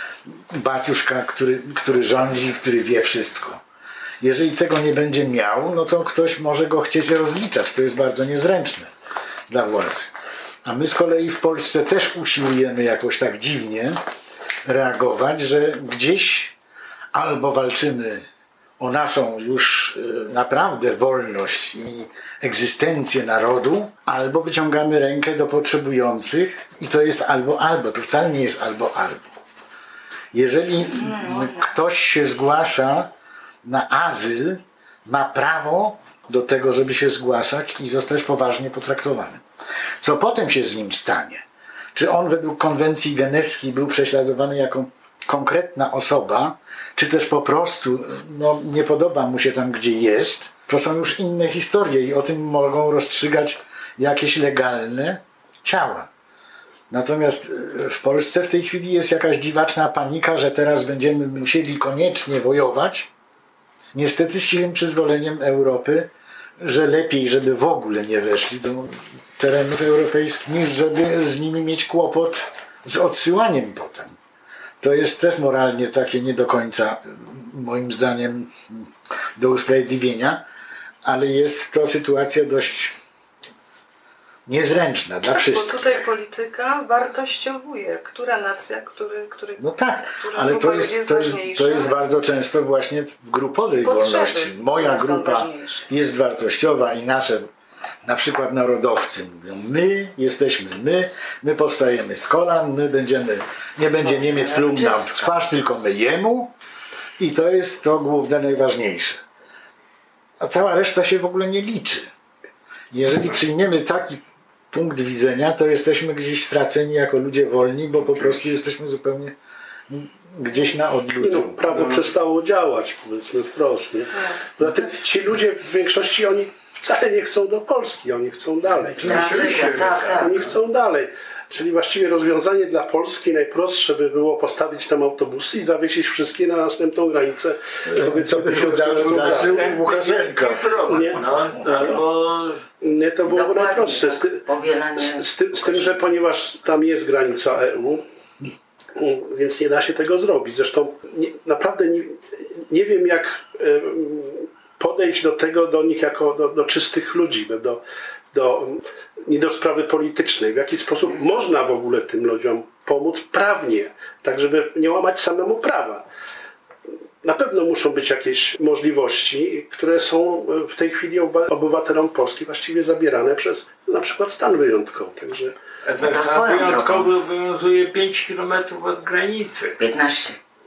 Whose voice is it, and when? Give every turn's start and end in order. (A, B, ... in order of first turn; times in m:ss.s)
0:00.3-0:03.6 A
0:04.2-0:08.9 A
0:09.5-0:10.1 A
0:10.6-0:14.0 A
0:14.6-0:16.5 A
0:17.1-0:18.2 A
0:18.8-0:29.2 A
0:30.3-0:33.1 A
0:30.8-0:31.7 B
0:33.6-0:39.4 A
0:40.0-0:56.1 A
0:56.9-1:03.1 A
1:03.9-1:14.2 A
1:14.8-1:20.4 A
1:21.0-1:23.0 A
1:24.4-1:25.8 A
1:25.3-1:32.0 C
1:29.6-1:37.5 A
1:33.8-1:35.9 C
1:38.0-1:46.5 A
1:44.0-1:45.4 B
1:47.2-1:49.2 A
1:50.4-1:52.1 A
1:52.9-1:59.3 A
1:59.9-2:01.9 A
2:01.2-2:09.3 D
2:08.9-2:09.5 A
2:09.0-2:10.5 E
2:09.0-2:10.4 B
2:10.2-2:19.8 D
2:17.9-2:21.0 A
2:18.8-2:22.6 E
2:20.9-2:22.0 D
2:22.8-2:24.4 D
2:23.2-2:26.0 B
2:25.0-2:28.0 D
2:29.0-2:37.8 D
2:38.3-2:46.0 D
2:47.2-2:55.6 D
2:55.8-2:59.8 E
2:56.0-2:57.1 B
2:59.8-3:00.4 B